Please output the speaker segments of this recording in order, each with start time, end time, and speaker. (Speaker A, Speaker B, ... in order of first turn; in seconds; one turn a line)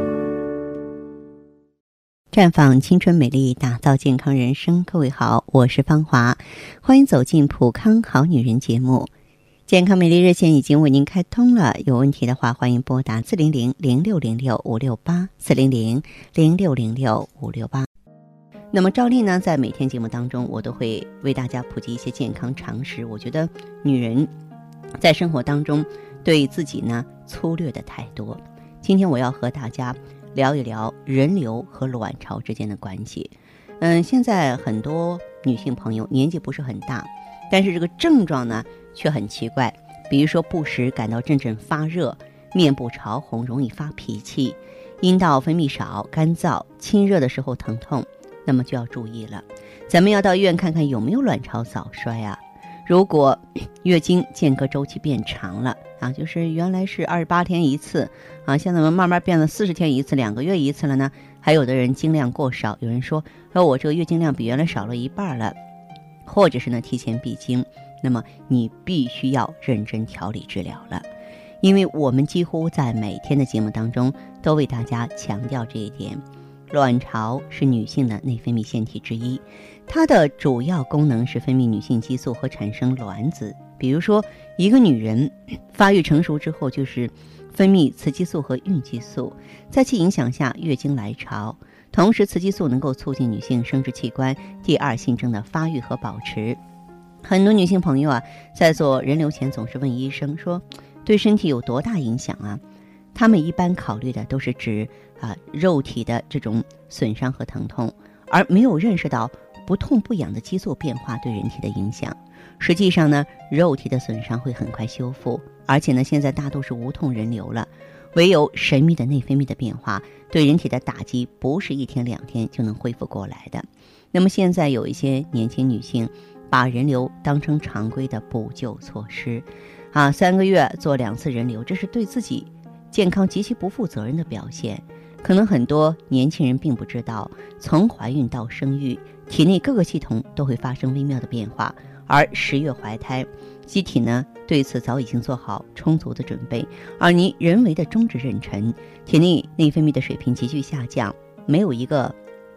Speaker A: 2.3-9.1
Speaker A: 9.7-17.9
Speaker A: 18.7-24.3
Speaker A: 25.0-65.6
Speaker A: 66.3-71.1
Speaker A: 71.6-96.6
Speaker A: 97.2-102.6
Speaker A: 103.2-152.2